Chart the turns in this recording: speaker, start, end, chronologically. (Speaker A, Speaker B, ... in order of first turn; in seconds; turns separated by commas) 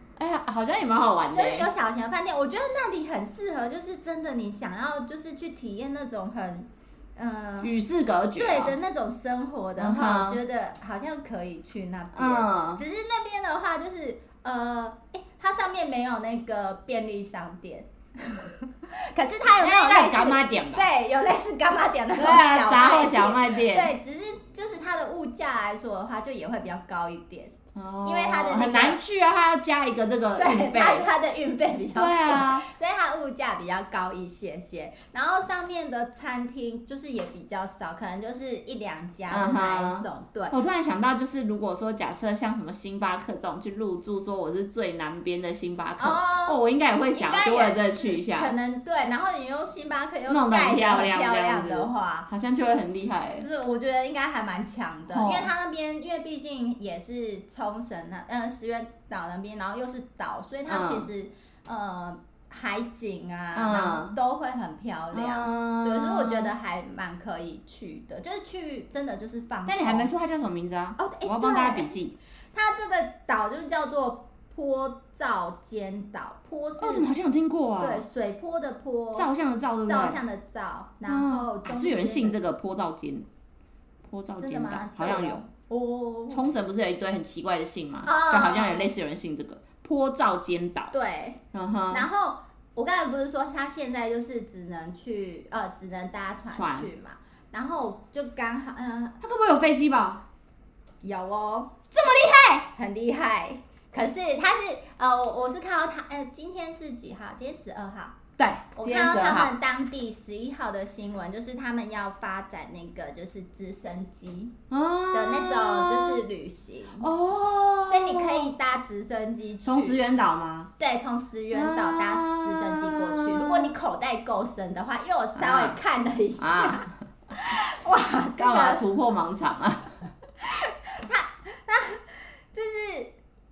Speaker A: 0.2-1.7, Speaker B: 1.3-7.8, Speaker A: 7.6-8.8, Speaker B: 8.4-29.0, Speaker A: 9.8-10.4, Speaker A: 12.2-12.8, Speaker A: 19.5-20.9, Speaker A: 22.2-23.9, Speaker A: 27.8-31.1, Speaker B: 30.4-40.5, Speaker A: 31.9-32.7, Speaker A: 39.3-48.5, Speaker B: 46.0-46.6, Speaker B: 47.1-52.3, Speaker A: 50.3-53.5, Speaker B: 53.4-70.1, Speaker A: 55.1-55.5, Speaker A: 60.7-61.1, Speaker A: 63.5-64.2, Speaker A: 65.1-66.5, Speaker A: 69.7-72.2, Speaker B: 71.0-72.0, Speaker B: 72.5-77.1, Speaker A: 76.8-78.0, Speaker B: 77.8-79.3, Speaker A: 79.2-80.2, Speaker B: 79.9-82.4, Speaker A: 81.0-83.3, Speaker A: 84.0-85.4, Speaker B: 84.4-86.4, Speaker A: 86.3-90.9, Speaker B: 88.0-88.9, Speaker B: 90.9-99.2, Speaker A: 91.5-92.1, Speaker A: 96.5-96.9, Speaker A: 99.2-100.2, Speaker B: 101.0-101.9, Speaker A: 101.9-102.7, Speaker B: 102.6-108.2, Speaker A: 108.4-109.5, Speaker B: 108.8-114.5, Speaker A: 114.7-116.2, Speaker B: 115.1-117.1, Speaker A: 117.0-118.5, Speaker B: 117.9-120.0, Speaker A: 119.7-120.7, Speaker B: 120.8-128.8, Speaker A: 121.5-123.7, Speaker A: 125.4-125.8, Speaker A: 126.4-126.9, Speaker A: 128.4-130.0, Speaker B: 130.4-133.1